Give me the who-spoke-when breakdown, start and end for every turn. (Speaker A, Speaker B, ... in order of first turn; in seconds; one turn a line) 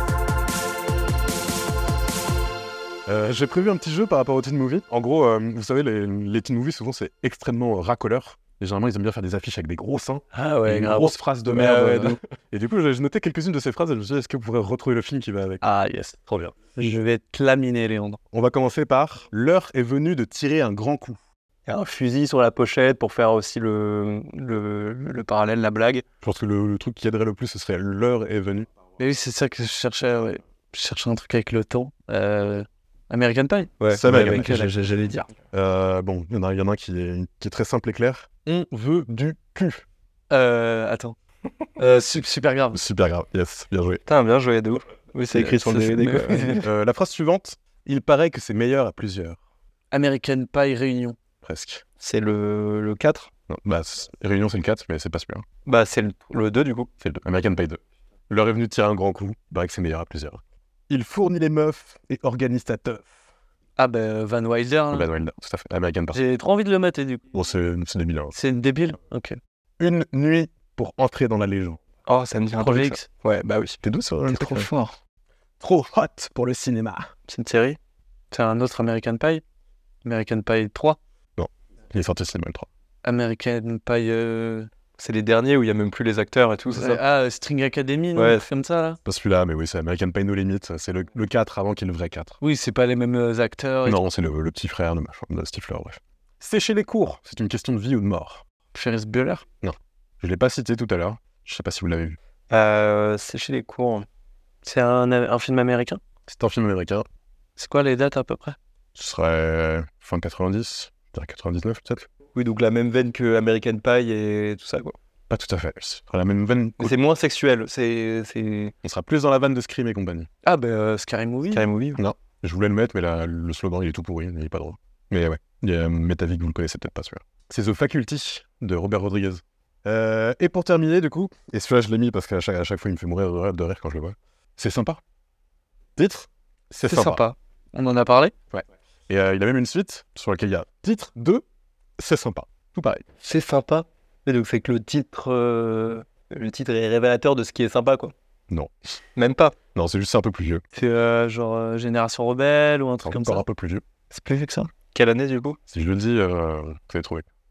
Speaker A: 3.1-15.6
Speaker B: 10.3-12.2
Speaker B: 15.6-18.2
Speaker A: 18.3-21.2
Speaker C: 21.7-26.1
Speaker A: 26.2-28.7
Speaker B: 29.0-35.3
Speaker C: 33.8-35.2
Speaker A: 33.9-34.5
Speaker A: 35.5-39.9
Speaker B: 40.3-41.2
Speaker B: 41.8-42.8
Speaker A: 42.7-44.0
Speaker C: 44.1-46.6
Speaker B: 45.3-46.6
Speaker A: 46.6-49.4
Speaker B: 49.9-51.2
Speaker A: 51.4-51.8
Speaker C: 52.0-53.3
Speaker A: 53.5-55.5
Speaker C: 55.7-56.9
Speaker A: 57.0-63.1
Speaker B: 63.8-65.1
Speaker A: 64.9-66.2
Speaker B: 66.1-67.3
Speaker A: 67.3-68.3
Speaker B: 68.3-69.4
Speaker A: 69.8-71.8
Speaker C: 72.1-74.9
Speaker B: 72.6-73.0
Speaker A: 73.8-74.7
Speaker A: 75.6-77.1
Speaker C: 77.3-77.8
Speaker B: 78.3-79.4
Speaker B: 80.0-81.0
Speaker A: 81.4-82.7
Speaker B: 83.0-84.7
Speaker C: 85.0-87.0
Speaker B: 86.7-89.0
Speaker C: 88.2-88.4
Speaker A: 89.0-92.4
Speaker B: 92.4-94.0
Speaker A: 93.8-98.4
Speaker B: 98.7-99.4
Speaker A: 99.6-102.2
Speaker C: 102.5-104.1
Speaker B: 104.6-106.0
Speaker A: 106.3-107.0
Speaker B: 107.6-108.6
Speaker A: 109.0-112.1
Speaker C: 112.3-115.0
Speaker A: 115.3-116.9
Speaker C: 116.8-118.7
Speaker A: 118.8-120.3
Speaker B: 120.4-121.7
Speaker C: 121.5-122.0
Speaker A: 122.0-135.0
Speaker A: 136.0-137.2
Speaker B: 136.9-138.3
Speaker A: 138.5-141.4
Speaker A: 142.0-143.1
Speaker C: 143.2-148.1
Speaker C: 149.2-149.6
Speaker A: 149.7-150.6
Speaker B: 150.7-153.4
Speaker A: 153.0-153.8
Speaker B: 154.1-154.7
Speaker C: 154.9-155.6
Speaker A: 155.7-157.3